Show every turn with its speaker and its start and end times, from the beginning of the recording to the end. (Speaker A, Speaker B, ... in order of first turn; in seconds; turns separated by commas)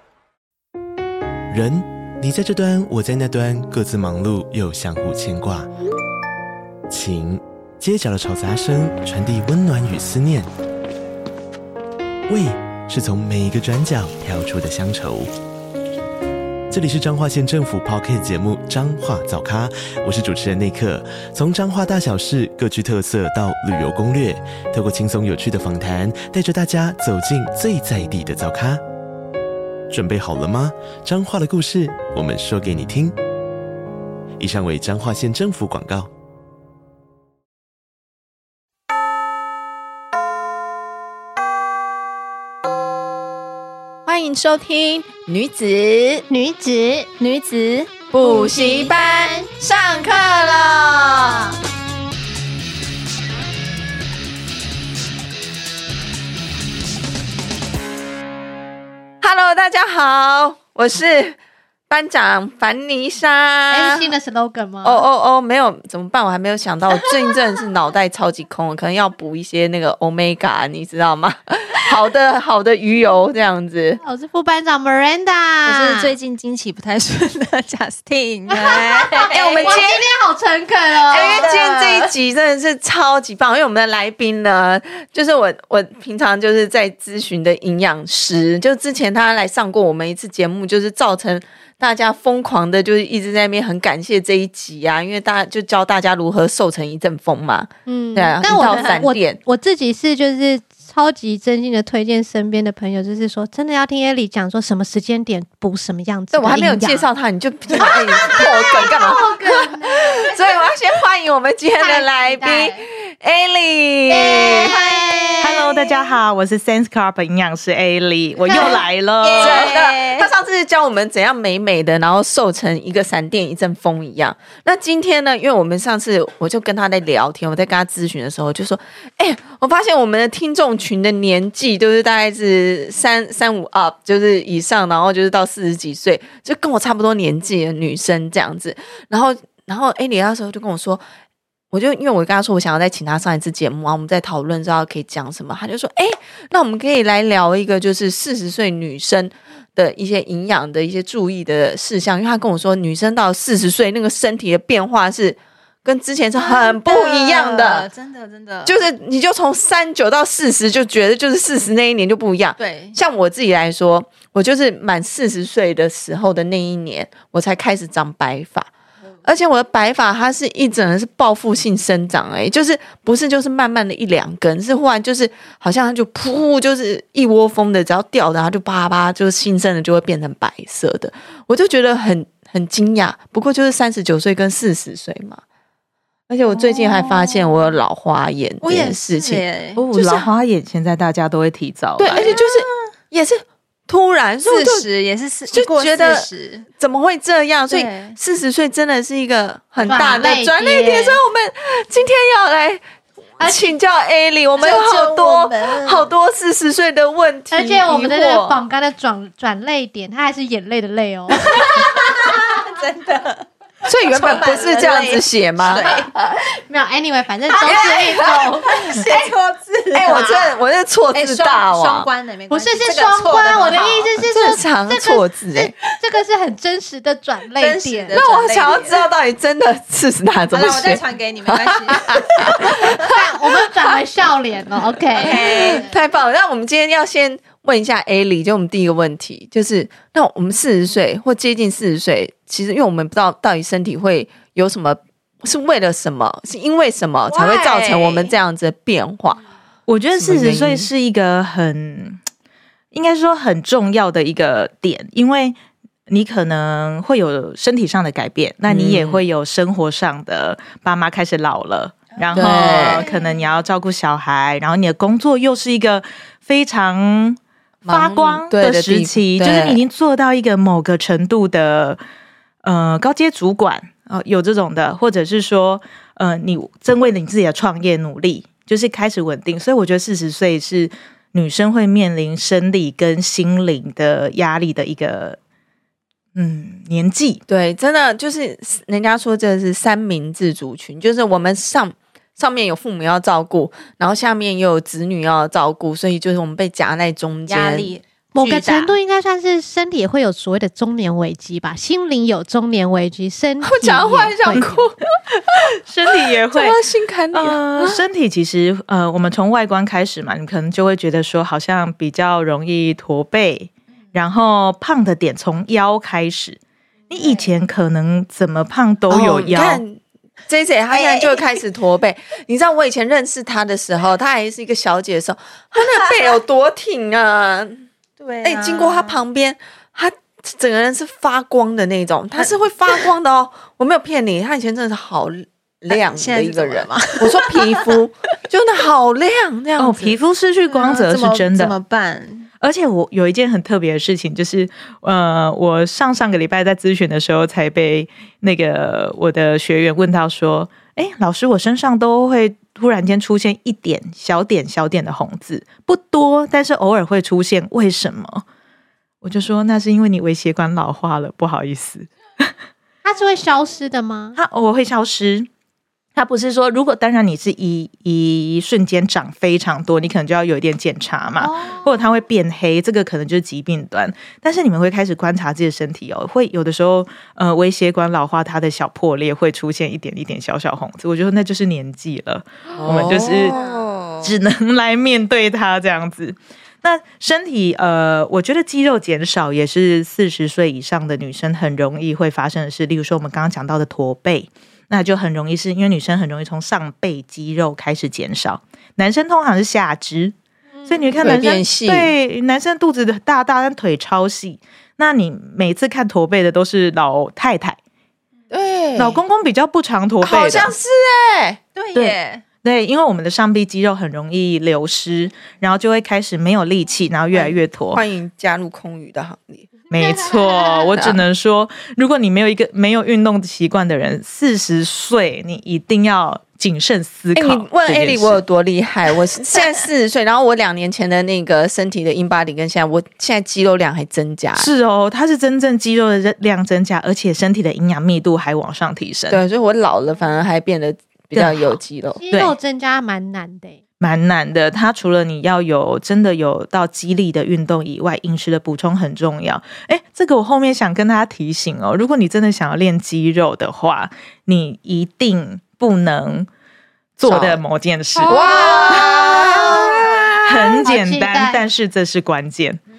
Speaker A: 1.5-5.7, Speaker A: 6.9-10.5, Speaker A: 12.3-15.3, Speaker A: 16.7-28.8, Speaker A: 29.9-33.2, Speaker A: 34.4-36.1, Speaker B: 44.1-46.2, Speaker C: 46.3-47.1, Speaker D: 47.2-48.0, Speaker B: 48.1-51.5, Speaker C: 48.2-49.0, Speaker B: 59.2-61.4, Speaker B: 61.9-64.1, Speaker C: 63.7-65.0, Speaker B: 64.8-74.0, Speaker C: 74.0-76.1, Speaker D: 75.7-79.8, Speaker C: 78.5-82.0, Speaker B: 79.2-80.0, Speaker B: 81.1-99.4, Speaker D: 81.2-81.9, Speaker C: 97.9-107.1, Speaker D: 98.6-99.0, Speaker B: 106.3-114.8, Speaker C: 107.7-110.2, Speaker C: 111.8-112.8, Speaker C: 114.1-115.8, Speaker E: 115.4-119.7, Speaker D: 118.5-120.3, Speaker B: 119.4-141.0, Speaker B: 141.7-157.9, Speaker D: 156.4-158.8, Speaker B: 158.7-168.7, Speaker D: 162.6-163.0, Speaker B: 169.2-185.4, Speaker B: 186.3-190.3, Speaker D: 186.5-187.8, Speaker D: 188.6-189.9, Speaker E: 189.8-192.3, Speaker B: 192.0-194.9, Speaker D: 192.1-192.7, Speaker D: 194.4-196.7, Speaker B: 195.5-202.8, Speaker D: 197.7-198.2, Speaker D: 199.8-200.2, Speaker C: 199.8-201.2, Speaker C: 203.4-203.7, Speaker B: 203.4-208.6, Speaker D: 204.6-206.1, Speaker C: 207.5-211.8, Speaker D: 211.5-213.5, Speaker B: 213.8-215.9, Speaker D: 214.1-216.1, Speaker C: 216.7-219.0, Speaker D: 217.5-224.1, Speaker B: 219.9-222.1, Speaker C: 222.5-228.2, Speaker B: 224.2-225.7, Speaker D: 227.6-229.1, Speaker B: 228.1-233.2, Speaker D: 230.5-233.0, Speaker C: 232.8-235.8, Speaker D: 235.2-235.9, Speaker B: 235.2-249.4, Speaker D: 247.3-248.3, Speaker E: 249.9-252.2, Speaker B: 250.2-250.9, Speaker E: 252.9-255.6, Speaker E: 256.1-272.0, Speaker B: 258.7-259.2, Speaker D: 262.2-263.3, Speaker B: 262.3-263.1, Speaker B: 267.9-269.8, Speaker E: 272.6-285.4, Speaker E: 286.4-287.4, Speaker B: 287.5-297.9, Speaker D: 297.5-298.9, Speaker C: 298.4-304.7, Speaker B: 303.6-305.0, Speaker E: 304.5-304.8, Speaker E: 305.7-306.8, Speaker B: 306.5-308.0, Speaker E: 307.3-316.6, Speaker D: 317.1-317.5, Speaker E: 317.1-319.8, Speaker B: 319.1-327.9, Speaker D: 320.9-321.6, Speaker D: 325.8-326.4, Speaker D: 328.2-329.2, Speaker B: 328.4-340.2, Speaker D: 332.4-333.1, Speaker D: 335.9-338.1, Speaker E: 339.8-341.8, Speaker D: 340.7-342.5, Speaker E: 342.6-358.4, Speaker E: 359.2-362.5, Speaker C: 363.0-364.4, Speaker E: 364.4-365.5, Speaker E: 366.2-383.6, Speaker C: 371.4-371.9, Speaker B: 382.8-384.3, Speaker D: 383.0-383.8, Speaker E: 384.2-400.4, Speaker E: 400.9-407.8, Speaker B: 401.2-402.1, Speaker B: 408.5-409.2, Speaker E: 409.0-410.7, Speaker B: 410.2-411.6, Speaker D: 411.8-412.4, Speaker E: 411.9-418.0, Speaker B: 417.3-419.8, Speaker E: 419.9-428.4, Speaker C: 420.3-420.7, Speaker B: 420.9-421.2, Speaker B: 427.4-434.7, Speaker E: 434.6-439.4, Speaker B: 439.3-442.2, Speaker E: 441.4-441.8, Speaker C: 442.2-443.8, Speaker E: 444.0-456.5, Speaker E: 457.2-459.9, Speaker B: 457.2-457.6, Speaker C: 458.1-461.6, Speaker B: 458.3-460.4, Speaker E: 460.4-462.8